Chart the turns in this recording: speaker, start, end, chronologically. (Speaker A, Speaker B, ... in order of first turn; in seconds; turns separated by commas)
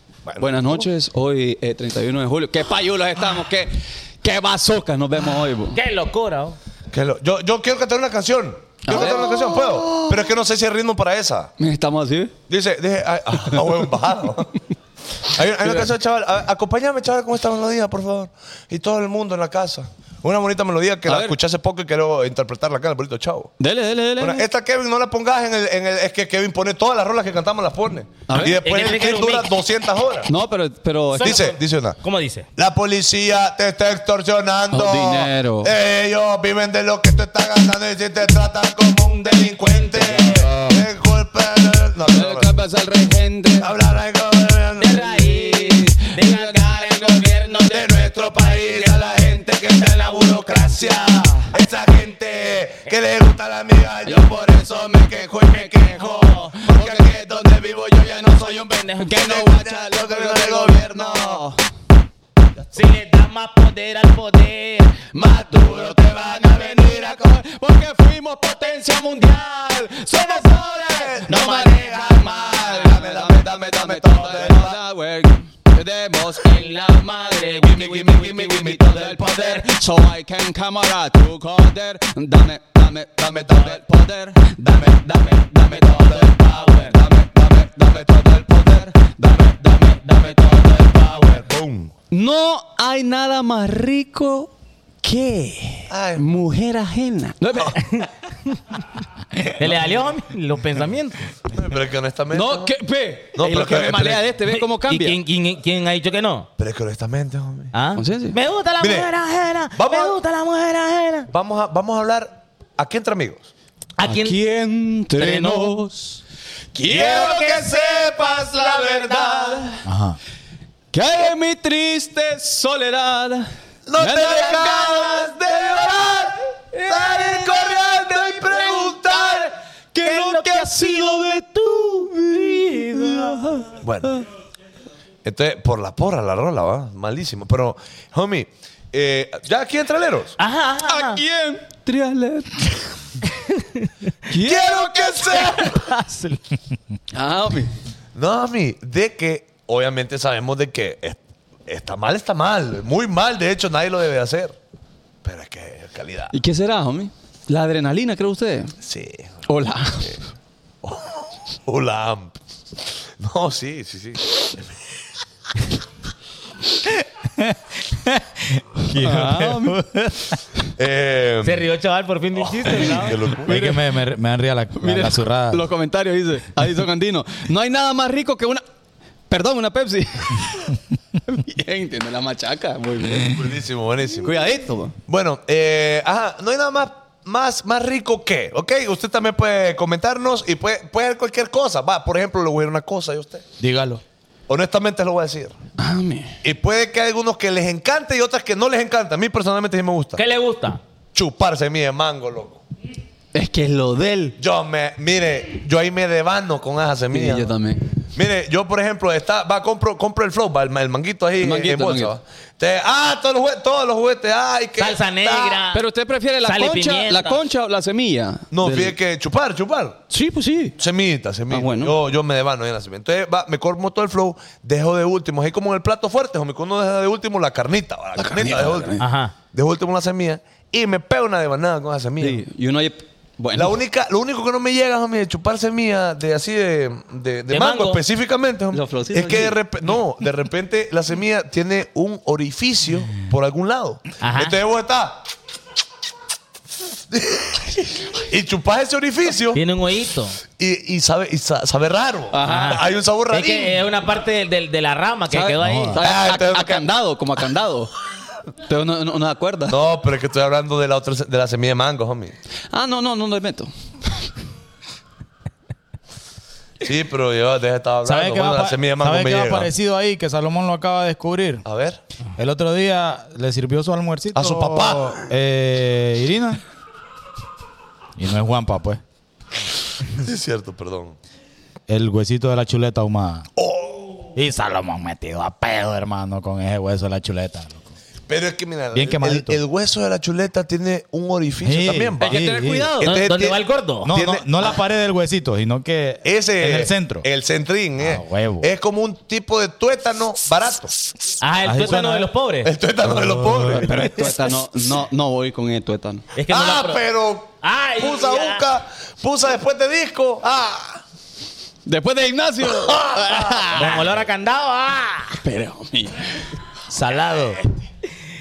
Speaker A: 0.2-0.8, Speaker B: 0.4-5.8, Speaker C: 5.7-6.6, Speaker A: 6.9-11.5, Speaker B: 8.8-10.2, Speaker B: 11.6-12.3, Speaker A: 12.5-14.6, Speaker A: 15.2-23.5, Speaker B: 21.1-21.4, Speaker B: 23.6-24.4, Speaker A: 24.2-30.3, Speaker B: 28.3-28.6, Speaker C: 28.4-29.5, Speaker B: 30.3-31.4, Speaker C: 31.1-32.5, Speaker A: 31.2-32.0, Speaker A: 32.6-42.5, Speaker B: 34.7-35.7, Speaker C: 39.1-40.5, Speaker B: 40.1-40.8, Speaker B: 42.1-43.7, Speaker A: 43.6-45.3, Speaker C: 44.8-51.2, Speaker B: 45.3-46.9, Speaker A: 47.6-61.5, Speaker B: 56.6-57.1, Speaker C: 58.7-59.0, Speaker B: 59.0-61.6, Speaker C: 62.7-65.1, Speaker B: 65.2-76.7, Speaker A: 65.2-67.4, Speaker A: 70.2-74.8, Speaker C: 71.3-73.0, Speaker C: 76.3-79.6, Speaker A: 77.6-79.5, Speaker B: 77.8-90.8, Speaker A: 83.4-83.7, Speaker A: 85.9-86.3, Speaker A: 88.0-88.4, Speaker A: 90.3-91.9, Speaker B: 92.1-94.5, Speaker B: 95.0-98.0, Speaker A: 95.9-96.2, Speaker C: 97.9-98.8, Speaker C: 99.6-101.3, Speaker A: 101.5-102.7, Speaker B: 102.3-105.2, Speaker A: 103.3-104.3, Speaker C: 104.5-106.5, Speaker A: 106.6-107.7, Speaker C: 107.7-111.3, Speaker B: 108.0-108.4, Speaker A: 108.8-109.1, Speaker A: 109.7-110.2, Speaker A: 111.3-113.5, Speaker C: 114.0-114.4, Speaker B: 114.0-116.2, Speaker C: 115.2-115.8, Speaker C: 116.8-119.6, Speaker B: 116.8-117.4, Speaker A: 116.9-119.6, Speaker B: 119.2-119.8, Speaker D: 119.8-120.2, Speaker B: 120.9-134.2, Speaker A: 123.9-126.3, Speaker A: 126.9-129.5, Speaker C: 130.0-131.4, Speaker C: 132.7-133.4, Speaker A: 133.8-134.1, Speaker A: 135.2-140.4, Speaker C: 140.4-141.2, Speaker B: 140.9-142.8, Speaker C: 143.4-143.9, Speaker B: 144.3-145.7, Speaker A: 144.4-145.9, Speaker C: 145.7-146.4, Speaker B: 147.1-147.7, Speaker A: 148.2-154.6, Speaker A: 155.2-156.3, Speaker B: 156.3-158.8, Speaker A: 158.8-159.5, Speaker B: 159.5-160.2, Speaker A: 160.8-162.4, Speaker A: 163.2-164.6, Speaker D: 167.4-170.4, Speaker B: 168.9-169.8, Speaker A: 170.8-171.7, Speaker C: 171.4-173.2, Speaker A: 172.4-173.7, Speaker D: 173.4-175.7, Speaker B: 173.5-173.8, Speaker B: 174.8-178.6, Speaker B: 179.3-183.4, Speaker A: 183.2-184.4, Speaker B: 184.2-185.0, Speaker A: 185.1-193.4, Speaker D: 193.6-194.0, Speaker A: 194.5-195.6, Speaker B: 195.8-196.4, Speaker A: 196.4-200.2, Speaker C: 200.2-200.8, Speaker A: 201.1-202.6, Speaker B: 203.3-204.4, Speaker A: 204.4-207.5, Speaker B: 207.1-207.9, Speaker A: 208.1-215.6, Speaker B: 211.4-212.2, Speaker C: 214.8-215.8, Speaker B: 215.7-218.9, Speaker C: 216.4-217.4, Speaker A: 218.5-220.0, Speaker B: 220.1-220.8, Speaker A: 220.8-229.0, Speaker B: 221.5-222.0, Speaker B: 228.2-229.1, Speaker C: 229.0-229.3, Speaker A: 229.5-232.4, Speaker B: 232.2-233.8, Speaker A: 233.5-245.3, Speaker C: 237.5-238.0, Speaker B: 238.7-239.6, Speaker C: 244.2-244.6, Speaker A: 247.1-249.6, Speaker C: 249.5-250.4, Speaker A: 250.6-253.8, Speaker B: 252.3-252.8, Speaker C: 252.4-256.0, Speaker B: 255.3-257.9, Speaker D: 255.6-256.0, Speaker A: 256.0-256.9, Speaker B: 258.6-259.8, Speaker A: 259.7-262.4, Speaker B: 262.7-264.2, Speaker A: 266.8-269.7, Speaker D: 268.1-271.6, Speaker A: 271.6-272.0, Speaker D: 272.4-276.6, Speaker A: 274.4-275.3, Speaker D: 278.2-279.0, Speaker A: 280.1-281.2, Speaker D: 281.9-283.5, Speaker A: 283.6-284.2, Speaker D: 284.4-287.9, Speaker A: 288.3-292.4, Speaker D: 288.9-289.6, Speaker D: 291.6-293.0, Speaker B: 292.2-293.1, Speaker A: 293.0-294.7, Speaker C: 293.0-294.1, Speaker D: 294.1-297.3, Speaker A: 296.2-300.9, Speaker D: 298.0-298.7, Speaker C: 301.4-302.7, Speaker D: 301.6-302.3, Speaker A: 302.6-304.5, Speaker D: 303.1-303.9, Speaker B: 303.7-306.3, Speaker C: 306.4-307.0, Speaker A: 306.5-311.0, Speaker C: 307.6-308.7, Speaker B: 311.9-313.6, Speaker A: 312.7-314.1, Speaker C: 313.4-315.4, Speaker D: 313.8-314.1, Speaker B: 315.4-316.5, Speaker D: 316.9-317.6